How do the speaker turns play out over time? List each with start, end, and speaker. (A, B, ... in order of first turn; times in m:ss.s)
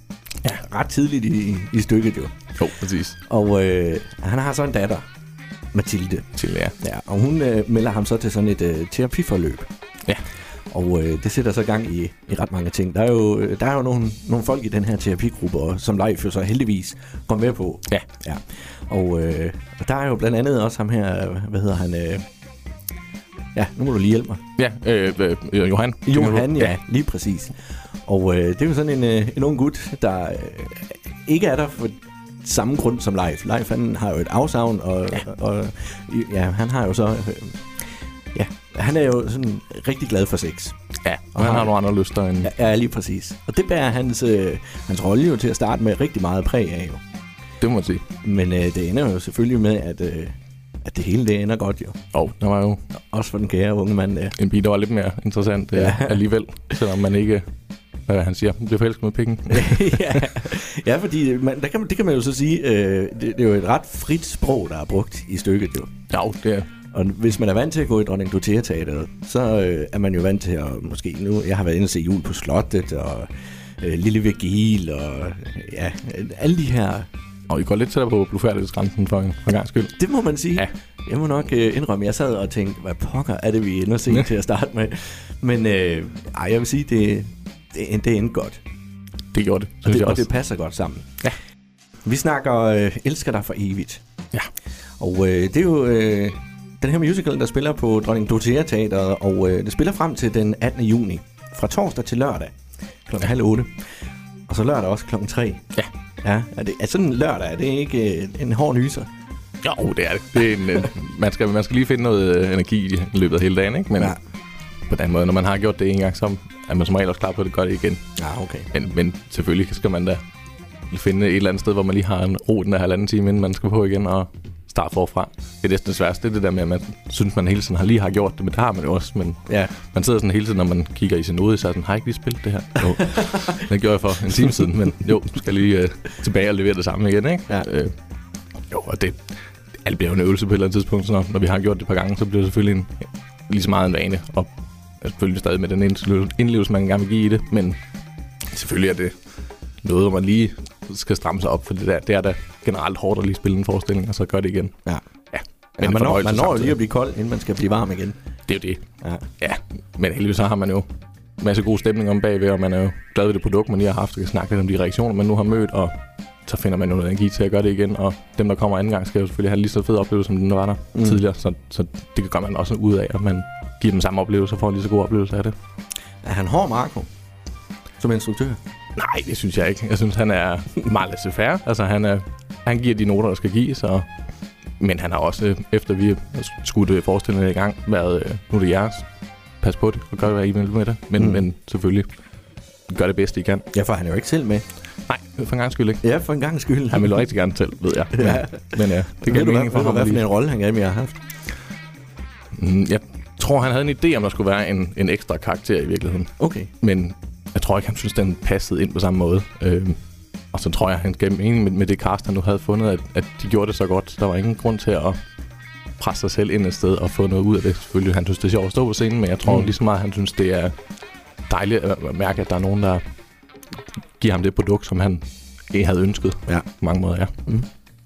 0:00.6-0:02.4 A
0:02.6-0:03.2 B
0:03.3-0:05.0 A
0:05.7-0:06.3 A
0:06.4-0:06.8 B
0:06.8-0:09.7 A
0:10.7-0:22.2 A
0:23.5-0:24.4 A
0:24.6-0:26.8 B
0:26.1-0:37.6 A
0:38.3-0:40.8 A
0:41.0-0:42.5 B
0:41.4-0:41.7 A
0:42.4-0:47.0 A
0:47.6-0:48.0 B
0:48.2-0:52.0 A
0:52.1-0:52.8 B
0:53.1-0:54.4 A
0:54.4-0:57.4 B
0:55.7-0:56.2 A
0:58.1-1:00.3 B
0:59.5-1:05.9 A
1:06.1-1:06.7 B
1:06.9-1:13.3 A
1:13.8-1:17.1 A
1:17.5-1:20.7 B
1:20.0-1:28.6 A
1:29.3-1:30.3 B
1:29.9-1:31.1 A
1:32.0-1:34.0 A
1:35.0-1:42.5 A
1:43.1-1:43.7 A
1:44.5-1:45.6 A
1:46.2-1:49.1 A
1:49.6-1:54.2 B
1:54.9-1:58.0 B
1:58.2-1:58.7 A
1:58.7-2:00.2 B
2:00.9-2:17.9 B
2:09.5-2:09.8 A
2:18.7-2:19.2 B
2:19.8-2:27.8 B
2:28.5-2:29.2 B
2:29.8-2:34.7 B
2:35.3-2:36.8 B
2:35.8-2:38.2 A
2:38.5-2:38.8 B
2:39.4-2:40.9 B
2:41.4-2:45.9 B
2:46.5-2:55.6 B
2:51.0-2:51.2 A
2:56.2-2:57.1 A
2:58.0-2:58.6 A
2:59.0-3:04.1 B
3:04.8-3:09.0 B
3:09.6-3:12.1 B
3:11.2-3:11.4 A
3:12.9-3:13.7 B
3:13.7-3:14.6 A
3:15.1-3:16.0 B
3:16.0-3:17.2 A
3:16.9-3:20.3 B
3:18.1-3:21.2 A
3:22.5-3:30.0 B
3:26.4-3:26.7 A
3:30.5-3:35.2 B
3:36.0-3:40.7 B
3:41.5-3:43.0 B
3:44.2-3:47.3 B